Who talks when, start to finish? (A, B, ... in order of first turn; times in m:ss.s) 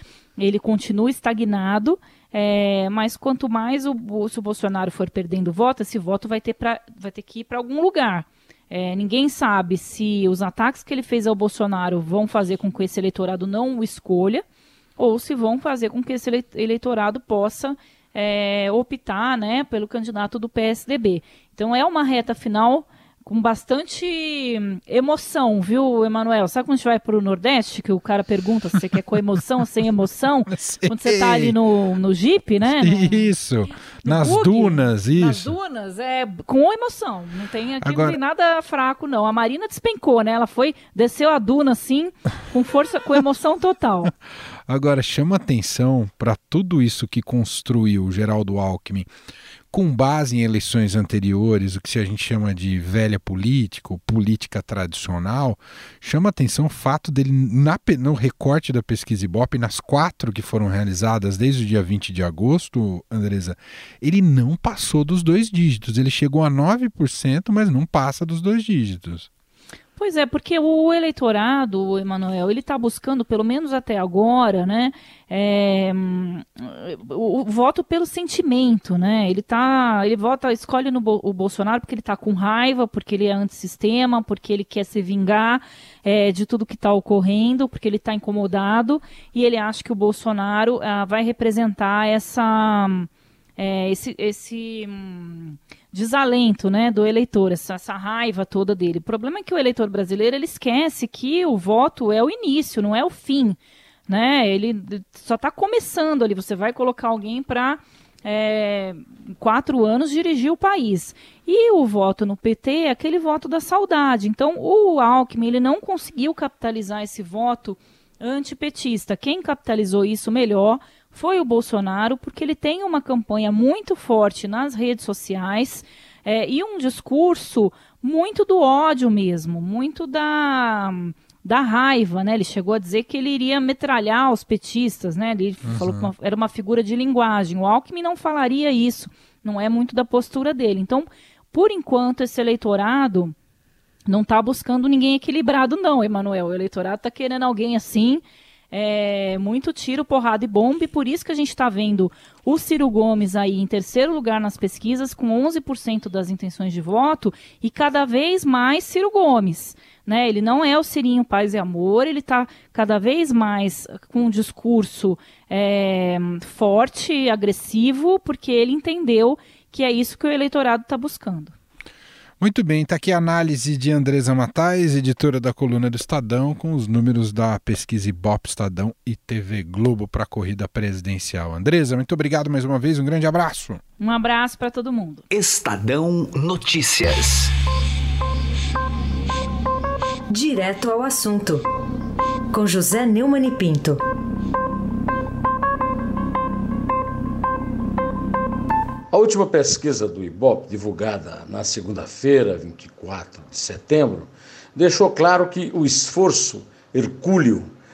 0:00.4-0:14.4 A
0:15.0-0:44.1 A
0:30.5-0:31.6 B
0:32.6-0:35.6 B
0:37.8-0:38.2 B
0:44.7-0:49.1 B
0:49.7-1:09.3 B
1:10.0-2:23.4 A
2:15.7-2:16.1 B
2:24.1-2:51.6 A
2:52.4-3:03.8 B
3:04.0-3:05.2 A
3:05.3-3:07.5 C
3:10.3-3:11.6 D
3:12.5-3:14.0 D
3:19.1-3:27.7 E